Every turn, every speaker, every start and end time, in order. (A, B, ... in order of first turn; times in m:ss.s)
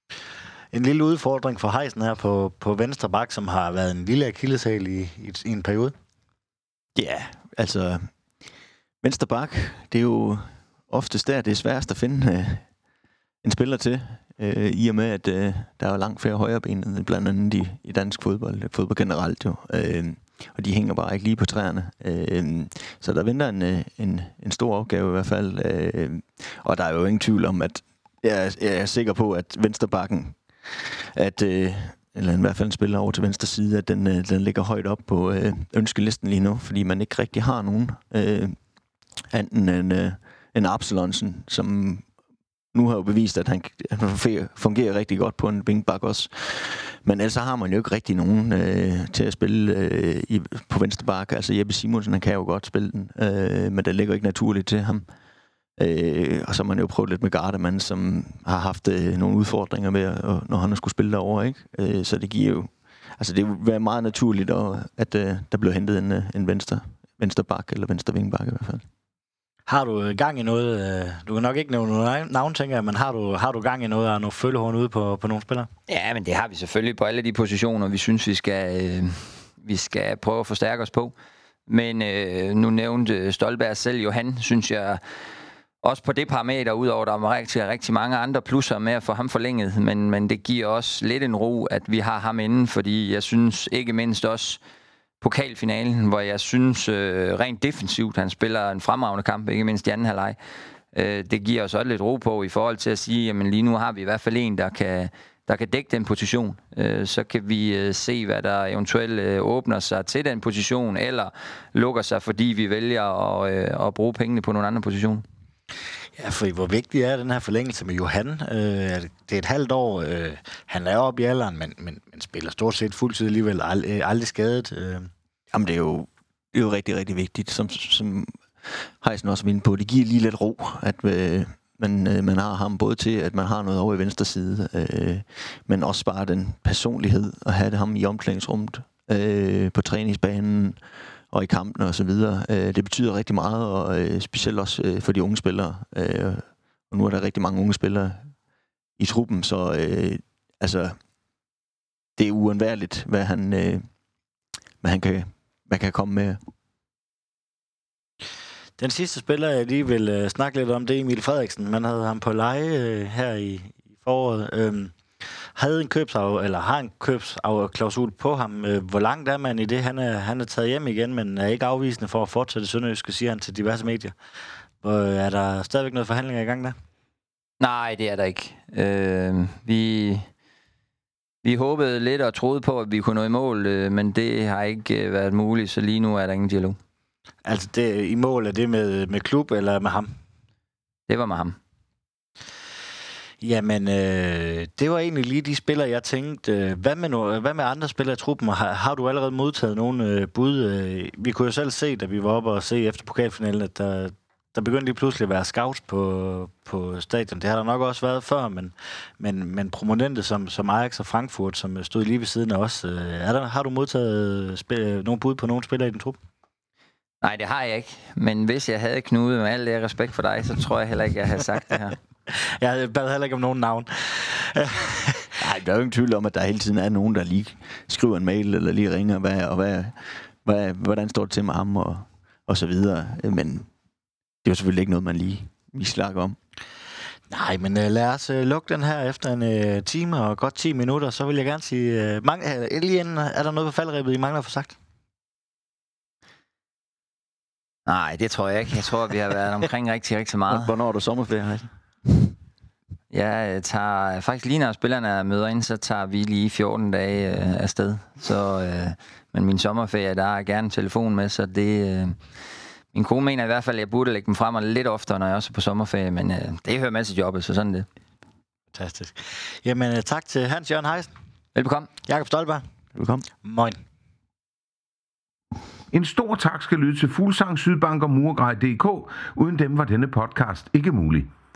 0:00.7-0:06.0 A
0:07.0-0:08.1 B
0:09.0-0:12.6 B
0:13.4-0:38.6 B
0:39.3-0:42.1 B
0:42.7-0:55.1 B
0:55.8-1:08.8 B
1:09.7-1:15.7 A
1:15.9-1:21.1 C
1:21.7-1:25.0 C
1:25.8-1:34.6 C
1:35.2-1:40.4 C
1:40.9-1:55.2 C
1:56.2-2:05.1 A
2:05.5-2:20.8 B
2:21.3-2:28.3 B
2:29.0-2:31.0 B
2:32.2-2:33.9 B
2:34.8-2:36.4 B
2:38.8-2:45.0 A
2:45.6-2:54.2 A
2:54.8-2:56.8 A
2:57.6-3:00.3 C
3:01.4-3:06.8 C
3:07.4-3:10.1 A
3:11.1-3:11.6 C
3:13.4-3:36.2 A
3:37.2-3:42.0 C
3:42.3-3:45.3 A
3:45.4-3:53.7 B
3:54.4-3:56.4 B
3:57.3-4:04.8 A
4:07.9-4:10.7 C
4:10.5-4:12.4 B
4:13.1-4:22.2 C
4:22.9-4:27.9 C
4:28.7-4:31.1 A
4:31.6-4:31.9 C
4:32.1-4:32.6 A
4:33.0-4:33.3 B
4:33.4-4:33.8 A
4:35.9-4:41.3 D